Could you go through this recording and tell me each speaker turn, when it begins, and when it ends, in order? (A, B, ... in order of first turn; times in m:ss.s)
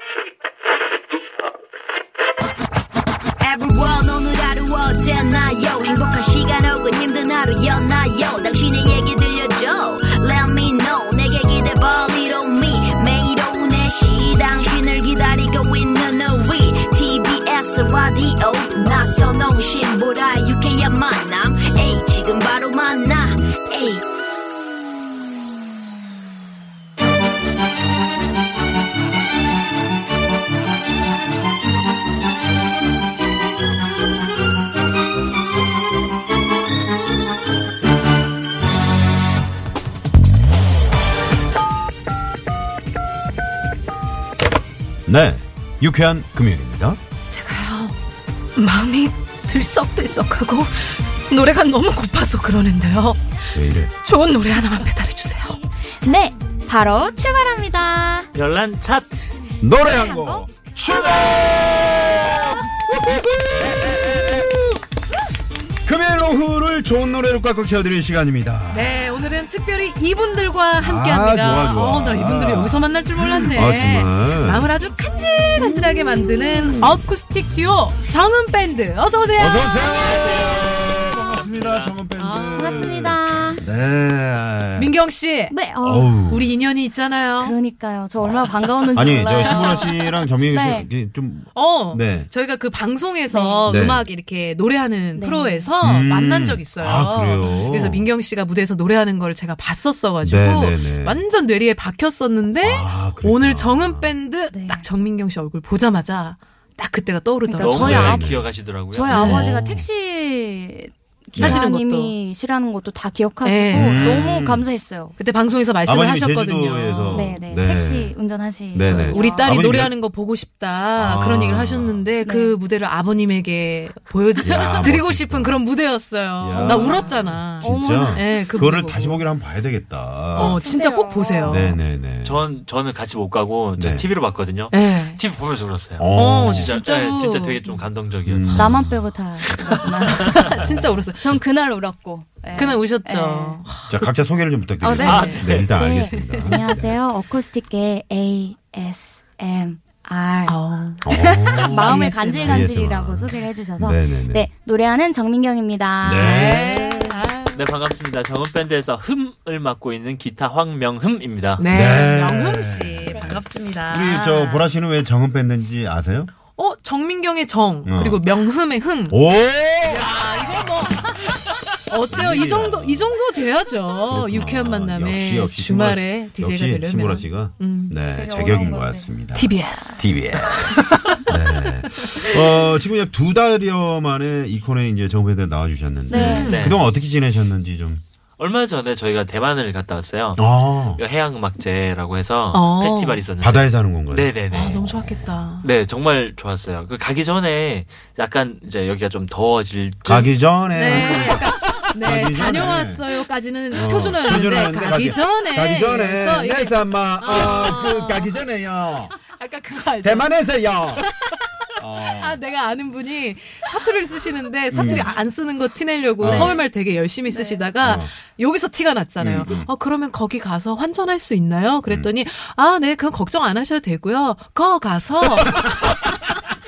0:03.4-0:24.0 A
0:45.1-0:47.0 B
0:47.3-0:48.0 C
0:48.6-0:55.6 C
0:53.5-0:53.9 B
0:56.0-0:58.3 D
0:58.3-0:59.4 E
0:59.6-1:04.8 B
0:59.8-1:02.5 D
1:05.8-1:09.1 B
1:08.7-1:21.0 C
1:10.8-1:14.7 B
1:19.4-1:24.9 B
1:21.2-1:22.0 E
1:22.2-1:23.1 C
1:22.5-1:23.6 D
1:24.7-1:27.6 C
1:25.5-1:26.2 D
1:25.8-1:26.5 B
1:27.4-1:30.9 D
1:28.9-1:32.3 B
1:29.4-1:29.9 C
1:31.5-1:47.9 C
1:33.3-1:33.8 D
1:33.6-1:34.0 B
1:35.2-1:35.7 D
1:35.8-1:38.1 B
1:40.2-1:41.2 B
1:42.6-1:44.1 B
1:44.5-1:44.9 D
1:47.4-1:48.3 D
1:47.6-1:49.3 E
1:47.7-1:49.9 B
1:48.9-1:55.2 D
1:49.1-1:49.5 C
1:51.4-1:51.6 B
1:51.4-1:52.2 C
1:53.4-1:54.3 C
1:53.7-1:54.7 B
1:55.2-1:57.3 C
1:55.8-1:58.2 B
1:57.1-1:59.6 D
1:58.7-1:59.9 B
1:59.1-2:09.2 C
2:01.0-2:02.1 B
2:02.2-2:02.6 D
2:04.4-2:05.6 B
2:06.4-2:10.6 B
2:06.5-2:08.2 D
2:10.3-2:11.8 D
2:10.4-2:11.8 C
2:11.4-2:12.5 B
2:12.2-2:18.9 E
2:13.8-2:14.1 B
2:14.7-2:15.2 C
2:16.0-2:16.7 B
2:16.1-2:17.6 C
2:18.2-2:19.1 B
2:18.5-2:23.6 D
2:19.4-2:20.4 E
2:19.7-2:21.4 C
2:20.5-2:20.9 B
2:22.5-2:24.1 C
2:23.9-2:27.0 B
2:24.8-2:36.8 D
2:25.0-2:25.7 E
2:25.1-2:25.4 C
2:26.0-2:26.5 C
2:30.4-2:31.0 C
2:31.0-2:34.5 B
2:31.6-2:32.7 C
2:36.0-2:37.3 B
2:36.2-2:37.6 C
2:37.5-2:41.7 E
2:41.6-2:44.7 C
2:41.7-2:46.3 B
2:46.5-2:49.2 C
2:47.8-2:48.2 B
2:49.1-2:50.7 B
2:49.8-2:57.9 C
2:52.1-2:53.2 B
2:54.0-3:08.0 B
2:58.1-3:00.1 D
2:59.3-3:02.4 C
3:06.1-3:06.6 D
3:06.1-3:06.7 C
3:06.4-3:06.8 E
3:08.4-3:14.8 E
3:10.4-3:11.0 B
3:12.5-3:13.3 C
3:13.4-3:15.4 B
3:14.6-3:15.7 C
3:15.6-3:21.3 E
3:20.0-3:23.1 B
3:20.7-3:28.3 C
3:23.7-3:29.2 B
3:29.3-3:30.3 C
3:30.0-3:31.1 B
3:31.0-3:46.4 C
3:31.8-3:32.4 B
3:34.7-3:35.1 B
3:36.2-3:36.6 B
3:36.3-3:36.6 D
3:37.2-3:37.6 D
3:37.8-3:38.1 B
3:39.2-3:39.7 B